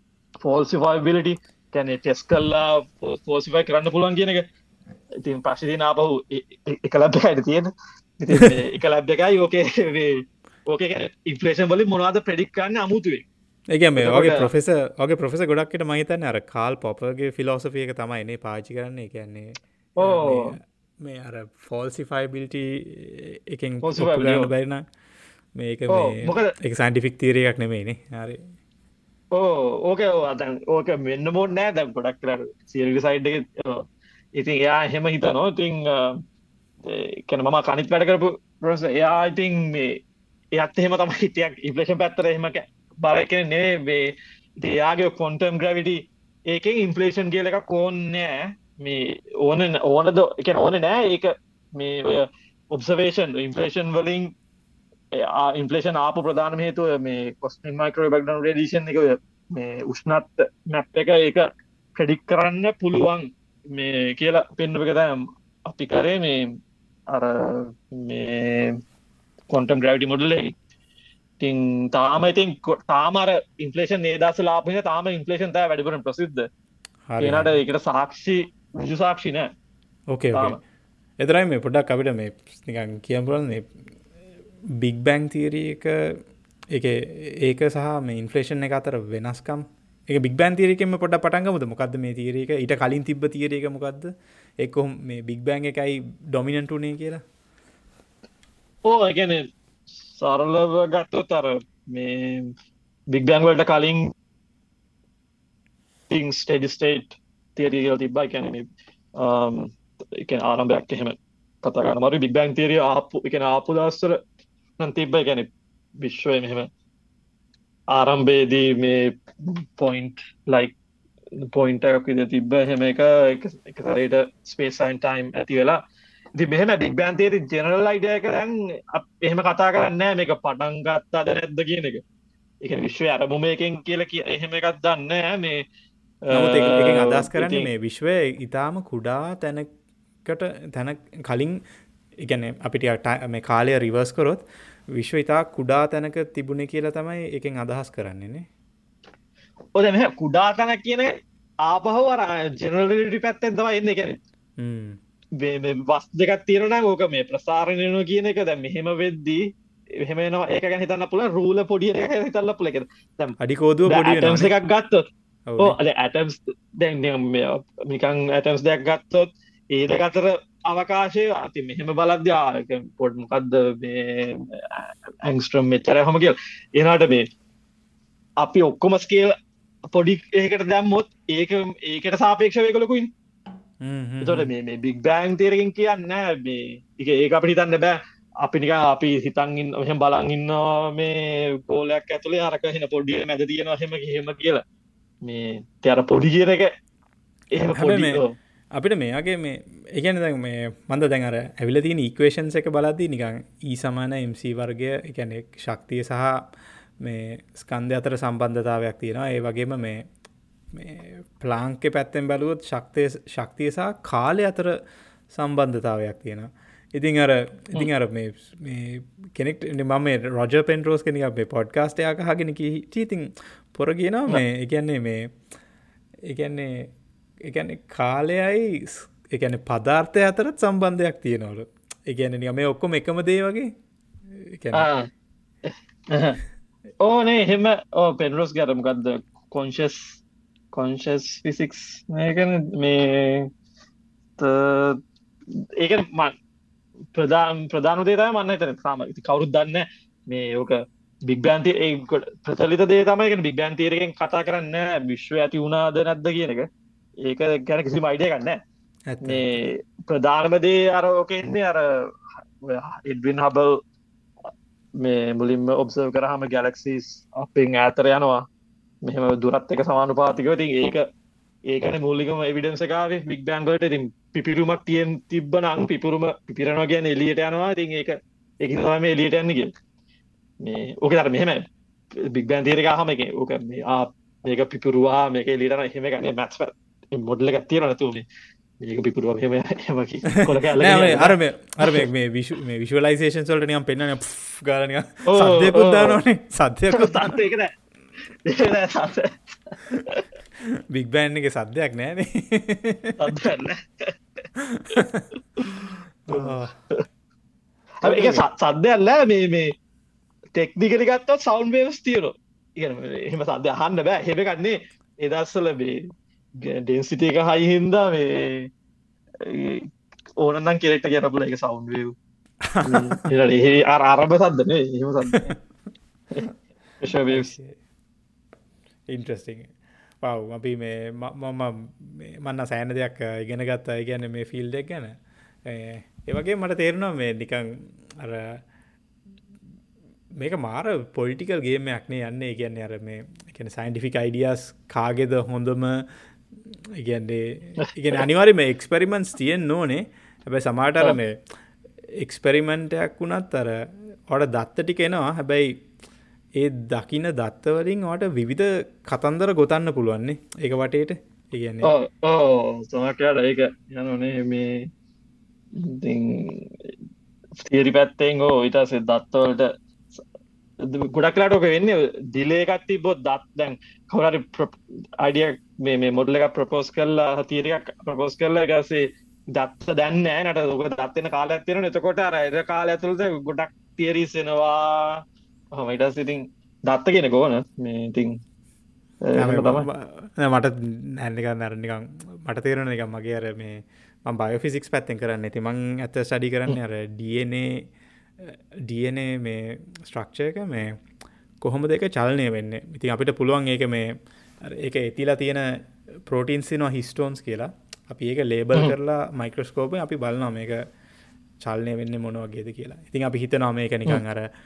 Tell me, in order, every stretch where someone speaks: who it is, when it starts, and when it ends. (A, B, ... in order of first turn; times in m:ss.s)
0:00.4-0:04.4 A
0:05.2-0:10.1 A
0:10.7-0:13.3 A
0:13.7-0:24.8 B
0:14.0-0:14.5 A
0:20.0-0:20.5 A
0:23.8-0:24.5 A
0:25.6-0:28.4 B
0:25.9-0:26.5 A
0:29.3-0:33.8 A
0:34.4-0:36.2 A
0:36.8-0:40.0 A
0:40.6-0:54.3 A
0:55.1-1:06.6 A
1:07.1-1:08.8 A
1:09.5-1:10.5 A
1:11.4-1:16.5 A
1:17.1-1:17.6 B
1:17.2-1:19.5 A
1:20.1-1:20.6 B
1:20.3-1:20.6 A
1:21.2-1:23.6 B
1:24.8-1:26.0 B
1:26.7-1:34.1 B
1:34.6-1:37.2 B
1:38.9-1:39.4 A
1:40.1-1:42.5 A
1:43.1-1:44.0 A
1:46.1-1:48.6 A
1:49.2-1:54.2 A
1:54.8-1:56.7 A
1:57.9-2:00.8 A
2:01.5-2:05.8 A
2:06.4-2:12.0 A
2:12.6-2:15.6 A
2:16.3-2:17.7 A
2:16.3-2:19.7 B
2:20.2-2:21.6 B
2:22.2-2:24.4 B
2:24.9-2:28.4 B
2:29.8-2:34.2 A
2:34.6-2:35.0 B
2:35.4-2:39.4 A
2:40.0-2:45.0 A
2:43.4-2:44.5 B
2:45.5-2:45.8 B
2:45.6-2:57.2 A
2:58.4-2:59.3 A
2:59.9-3:03.1 A
3:03.8-3:04.5 B
3:04.2-3:14.6 A
3:15.2-3:16.7 A
3:17.5-3:18.3 A
3:17.8-3:18.2 B
3:18.7-3:26.4 B
3:27.0-3:30.0 B
3:30.7-3:34.7 B
3:35.3-3:45.3 B
3:46.3-3:46.9 B
3:47.4-3:53.7 B
3:54.4-3:54.9 B
3:54.7-3:55.1 A
3:55.6-3:56.4 A
3:57.0-4:00.2 A
4:00.7-4:03.5 A
4:04.4-4:05.0 A
4:05.8-4:06.3 A
4:07.1-4:16.7 A
4:17.2-4:18.6 A
4:19.1-4:19.6 B
4:19.2-4:22.0 A
4:22.6-4:23.8 A
4:25.0-4:28.4 A
4:29.0-4:31.0 A
4:31.7-4:39.7 A
4:40.6-4:48.2 A
4:48.8-4:52.1 A
4:50.4-4:57.4 B
4:55.3-4:56.2 A
4:56.9-4:57.7 A
4:58.4-5:00.3 A
5:00.9-5:03.2 B
5:03.2-5:04.2 A
5:04.6-5:06.7 B
5:06.3-5:06.6 A
5:08.0-5:09.7 A
5:08.0-5:08.4 B
5:10.6-5:16.0 A
5:16.6-5:18.7 A
5:19.4-5:19.9 A
5:20.4-5:22.1 A
5:22.7-5:23.2 B
5:22.8-5:25.5 A
5:25.3-5:25.6 B
5:27.0-5:27.5 A
5:27.3-5:27.8 B
5:29.1-5:38.6 B
5:40.4-5:46.1 B
5:47.0-5:51.4 B
5:52.2-5:53.8 B
5:54.3-5:55.7 B
5:56.6-6:01.9 B
6:01.8-6:04.8 A
6:05.8-6:06.9 A
6:07.6-6:10.2 A
6:10.8-6:25.2 A
6:25.7-6:28.4 A
6:29.2-6:29.9 A
6:29.4-6:37.9 B
6:38.4-6:40.9 B
6:41.6-6:45.7 B
6:46.3-6:50.8 B
6:51.6-6:54.5 B